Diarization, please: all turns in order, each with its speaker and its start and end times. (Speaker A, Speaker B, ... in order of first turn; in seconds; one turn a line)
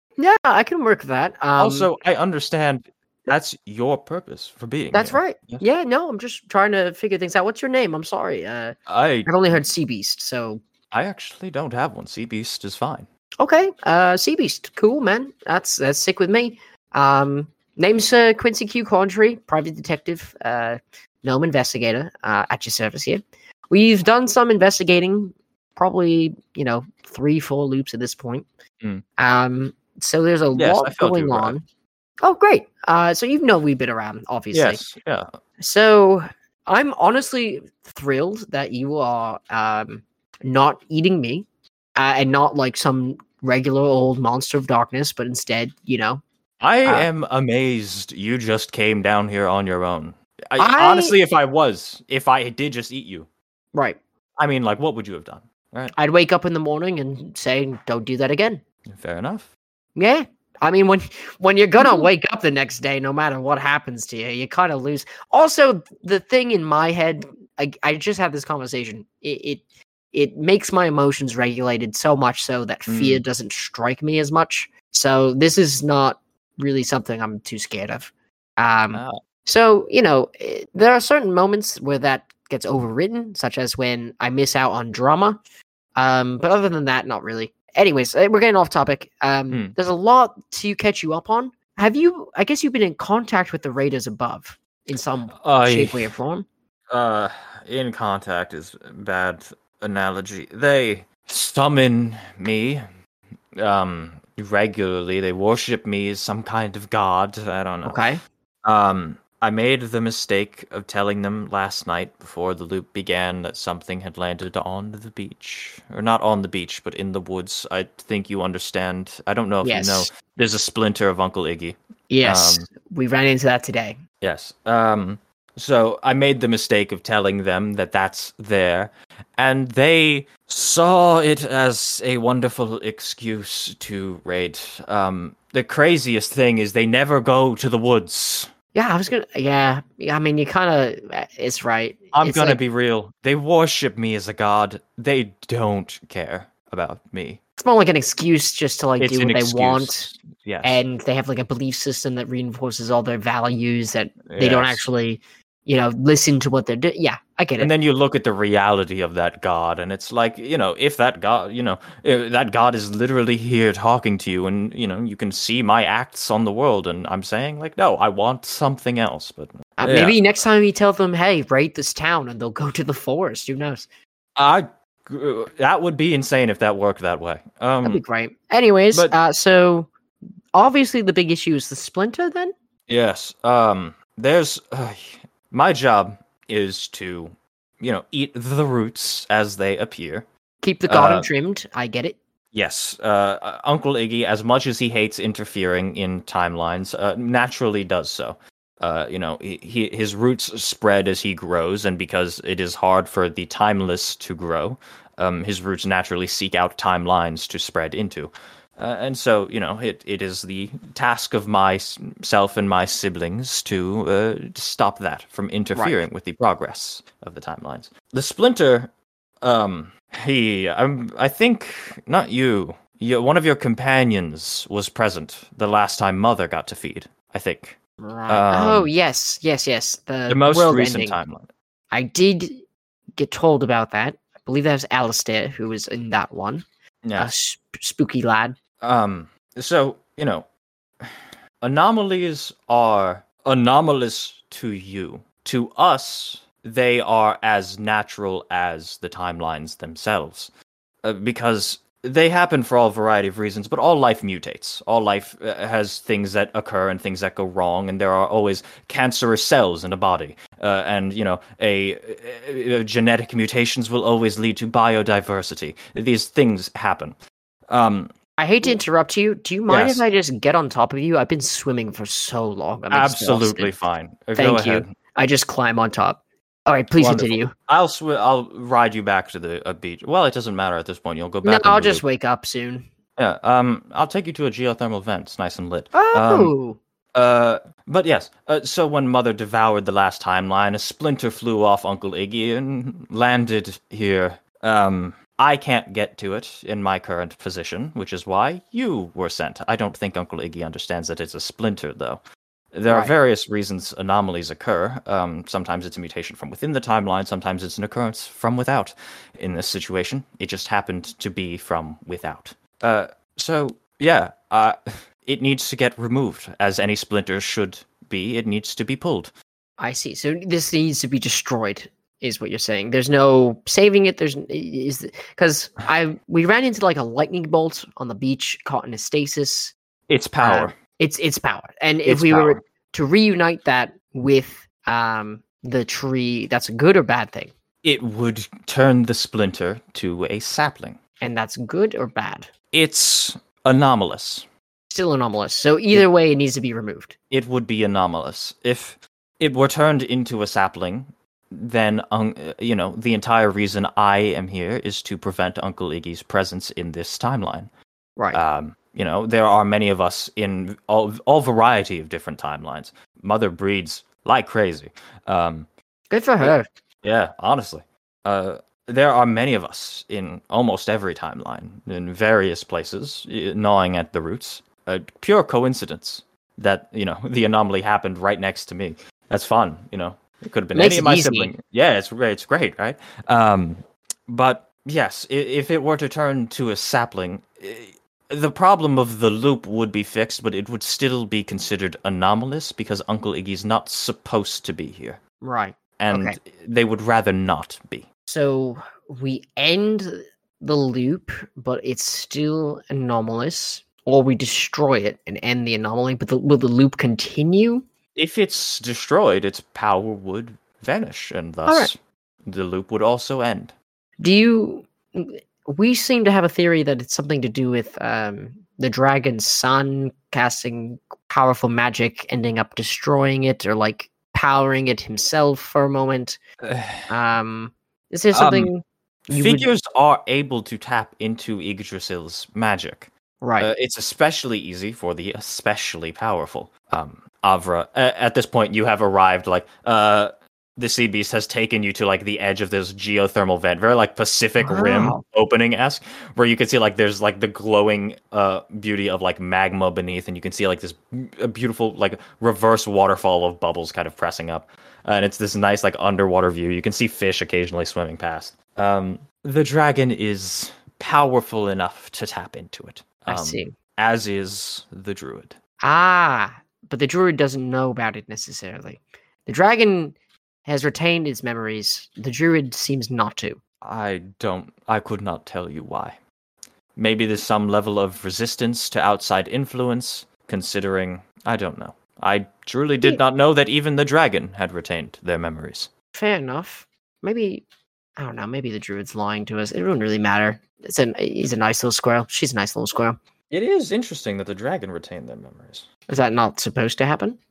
Speaker A: 0.2-1.9
Speaker B: 1.6-5.6
Speaker A: 4.9-10.6
Speaker B: 8.9-9.6
Speaker B: 10.9-13.1
Speaker A: 13.4-28.5
Speaker A: 29.2-31.6
Speaker B: 30.5-31.5
Speaker A: 32.2-34.8
Speaker B: 34.5-35.3
Speaker A: 35.6-46.2
Speaker B: 46.6-53.3
Speaker A: 50.6-51.1
Speaker A: 53.7-54.0
Speaker B: 54.4-55.9
Speaker A: 55.9-58.6
Speaker B: 58.9-59.5
Speaker A: 60.0-85.4
Speaker B: 72.9-73.2
Speaker B: 78.9-79.2
Speaker A: 86.0-96.5
Speaker B: 95.4-96.1
Speaker B: 96.9-102.8
Speaker B: 103.6-108.0
Speaker A: 107.8-108.2
Speaker B: 108.6-122.7
Speaker A: 119.6-120.1
Speaker A: 122.1-124.0
Speaker B: 124.2-138.5
Speaker A: 138.7-142.6
Speaker B: 142.1-147.4
Speaker A: 147.6-150.1
Speaker B: 149.0-150.8
Speaker A: 150.6-157.7
Speaker B: 154.2-154.9
Speaker B: 157.6-170.2
Speaker A: 169.8-173.9
Speaker B: 174.3-178.0
Speaker A: 177.8-179.9
Speaker B: 178.9-179.2
Speaker A: 180.5-182.5
Speaker B: 182.9-190.2
Speaker A: 190.6-192.2
Speaker B: 190.9-191.3
Speaker B: 192.5-228.9
Speaker A: 215.7-216.0
Speaker A: 228.0-231.2
Speaker B: 230.3-231.5
Speaker A: 231.9-232.6
Speaker A: 233.1-236.6
Speaker B: 237.0-237.3
Speaker A: 237.2-238.6
Speaker B: 238.8-240.5
Speaker B: 241.0-250.5
Speaker B: 251.0-267.1
Speaker B: 267.7-268.1
Speaker A: 268.4-273.7
Speaker B: 269.7-270.0
Speaker B: 272.9-274.9
Speaker A: 274.4-277.5
Speaker B: 276.9-282.0
Speaker A: 281.4-282.9
Speaker B: 283.2-286.5
Speaker A: 285.9-286.8
Speaker B: 287.1-302.2
Speaker B: 302.7-319.3
Speaker A: 302.9-303.1
Speaker A: 319.8-329.7
Speaker B: 330.1-330.7
Speaker A: 330.4-337.5
Speaker B: 332.1-332.6
Speaker B: 337.8-341.0
Speaker A: 341.2-342.5
Speaker B: 342.7-344.4
Speaker A: 344.9-347.1
Speaker B: 347.3-357.7
Speaker B: 358.3-365.7
Speaker A: 366.1-366.6
Speaker B: 366.4-395.2
Speaker A: 380.7-381.5
Speaker A: 395.4-396.4
Speaker B: 396.0-398.1
Speaker A: 398.3-407.9
Speaker B: 408.1-413.7
Speaker A: 414.2-426.4
Speaker B: 426.6-427.1
Speaker A: 427.1-429.7
Speaker B: 428.3-428.7
Speaker B: 429.3-465.6
Speaker A: 433.4-433.7
Speaker A: 444.6-445.2
Speaker A: 463.3-463.7
Speaker A: 465.8-473.6
Speaker B: 473.8-476.2
Speaker B: 476.9-485.9
Speaker A: 486.1-487.6
Speaker A: 488.2-493.2
Speaker B: 493.5-495.9
Speaker A: 496.1-497.4